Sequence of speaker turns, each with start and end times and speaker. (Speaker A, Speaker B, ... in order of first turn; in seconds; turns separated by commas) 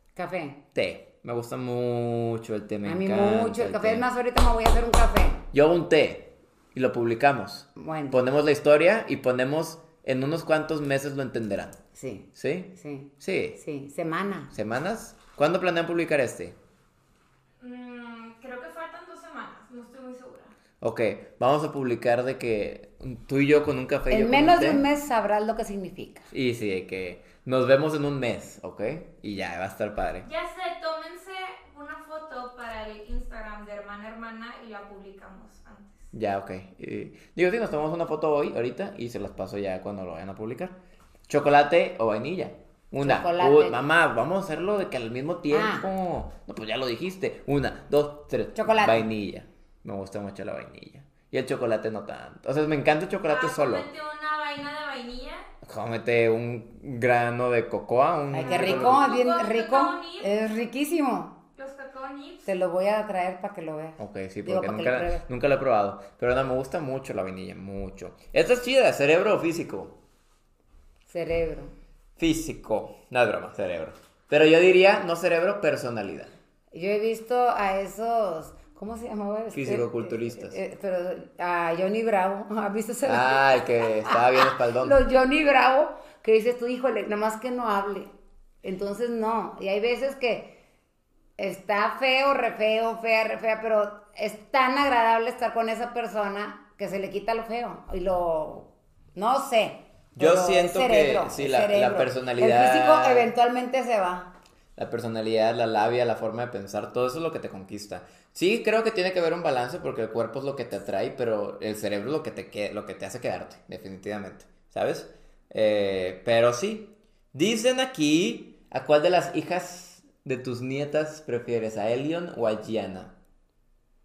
Speaker A: 0.1-0.6, Speaker B: 0.7-4.0, Speaker A: 2.8-5.4, Speaker B: 5.5-11.8, Speaker A: 7.8-8.2, Speaker A: 11.9-14.5, Speaker B: 12.3-13.6, Speaker B: 14.5-16.6, Speaker C: 17.6-20.5, Speaker B: 20.8-24.8, Speaker A: 24.1-26.3, Speaker B: 26.3-30.3, Speaker C: 30.2-36.1, Speaker B: 36.1-40.7, Speaker B: 41.3-53.9, Speaker A: 43.0-43.8, Speaker A: 45.5-45.8, Speaker A: 48.5-49.1, Speaker C: 53.3-55.4, Speaker B: 55.6-59.1, Speaker A: 58.3-61.3, Speaker C: 58.4-60.3, Speaker C: 61.5-62.5, Speaker A: 62.5-65.2, Speaker B: 64.0-69.9, Speaker A: 71.0-71.7, Speaker B: 72.2-76.3, Speaker A: 76.7-88.1, Speaker B: 79.5-80.6, Speaker B: 83.0-85.0, Speaker A: 88.6-90.5, Speaker A: 91.4-104.3, Speaker B: 100.2-103.3, Speaker B: 104.8-123.1